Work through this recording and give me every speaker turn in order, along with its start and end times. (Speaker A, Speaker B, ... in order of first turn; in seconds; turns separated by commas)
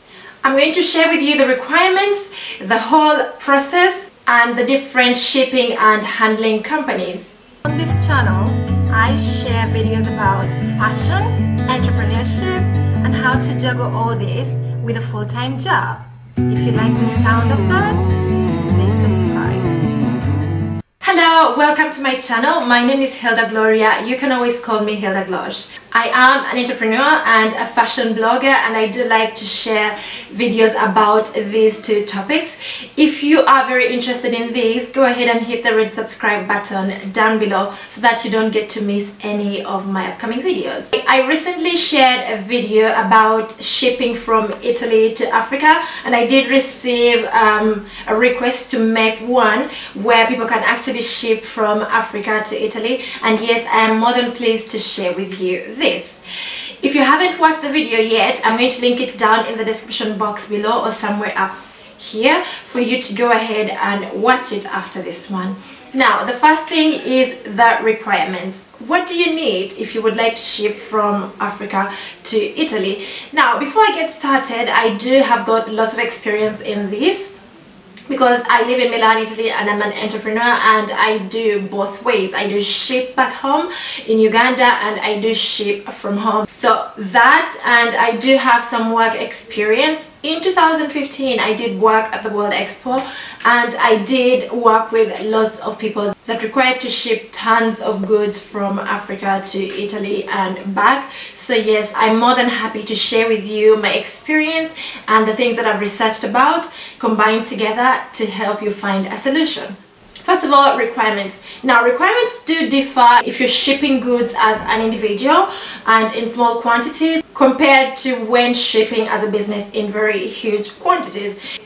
Speaker A: 0.4-19.7, Speaker A: 21.0-56.2, Speaker A: 56.8-77.3, Speaker A: 78.1-121.4